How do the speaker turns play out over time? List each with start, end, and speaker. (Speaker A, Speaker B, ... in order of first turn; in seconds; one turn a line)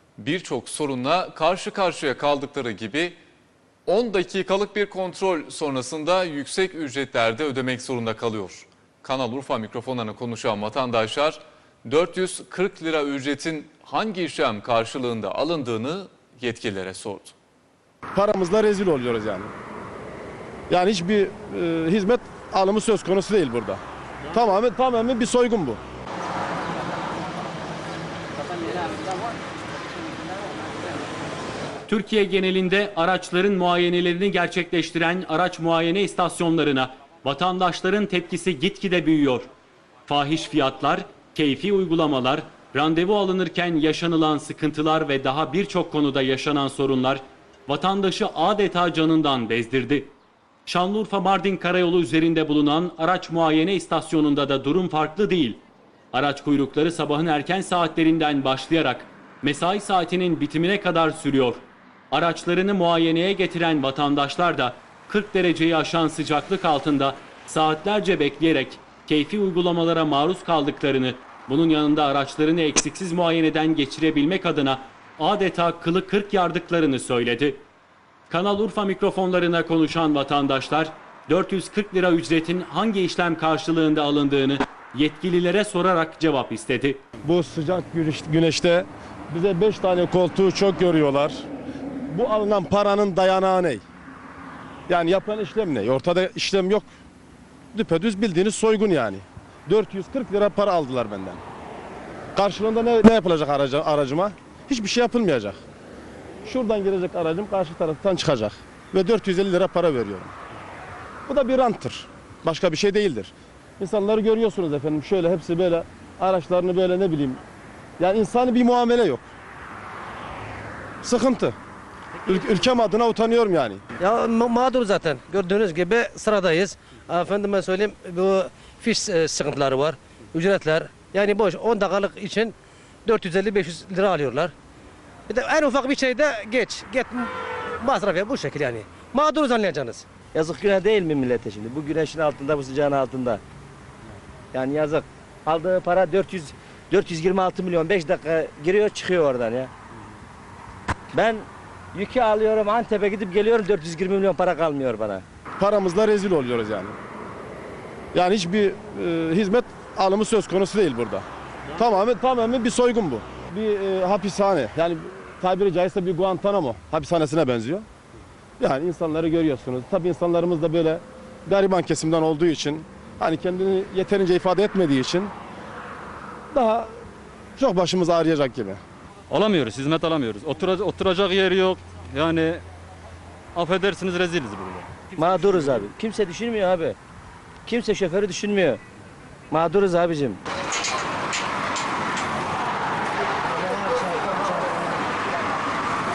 Speaker A: 0.2-3.1
Speaker A: 3.9-17.3
Speaker B: 18.1-19.5
Speaker B: 20.7-23.8
Speaker B: 24.3-25.8
Speaker C: 31.9-39.5
Speaker C: 40.1-50.1
Speaker C: 50.6-55.6
Speaker C: 56.1-77.6
Speaker C: 78.3-87.0
Speaker B: 87.2-91.5
Speaker B: 92.1-93.8
Speaker B: 94.9-96.9
Speaker B: 97.7-101.4
Speaker B: 102.3-105.6
Speaker B: 106.4-110.3
Speaker B: 111.3-117.4
Speaker B: 118.0-119.2
Speaker B: 121.0-121.5
Speaker B: 122.2-123.8
Speaker D: 124.0-132.5
Speaker D: 133.1-134.5
Speaker D: 135.3-140.1
Speaker E: 140.3-143.4
Speaker E: 144.5-149.7
Speaker E: 151.1-155.2
Speaker B: 155.6-156.9
Speaker B: 158.1-167.8
Speaker B: 168.6-175.3
Speaker B: 176.5-176.9
Speaker B: 177.6-178.8
Speaker F: 179.3-182.6
Speaker F: 183.6-184.8
Speaker E: 185.2-187.0
Speaker E: 187.7-188.8
Speaker E: 189.5-190.4
Speaker E: 193.6-194.8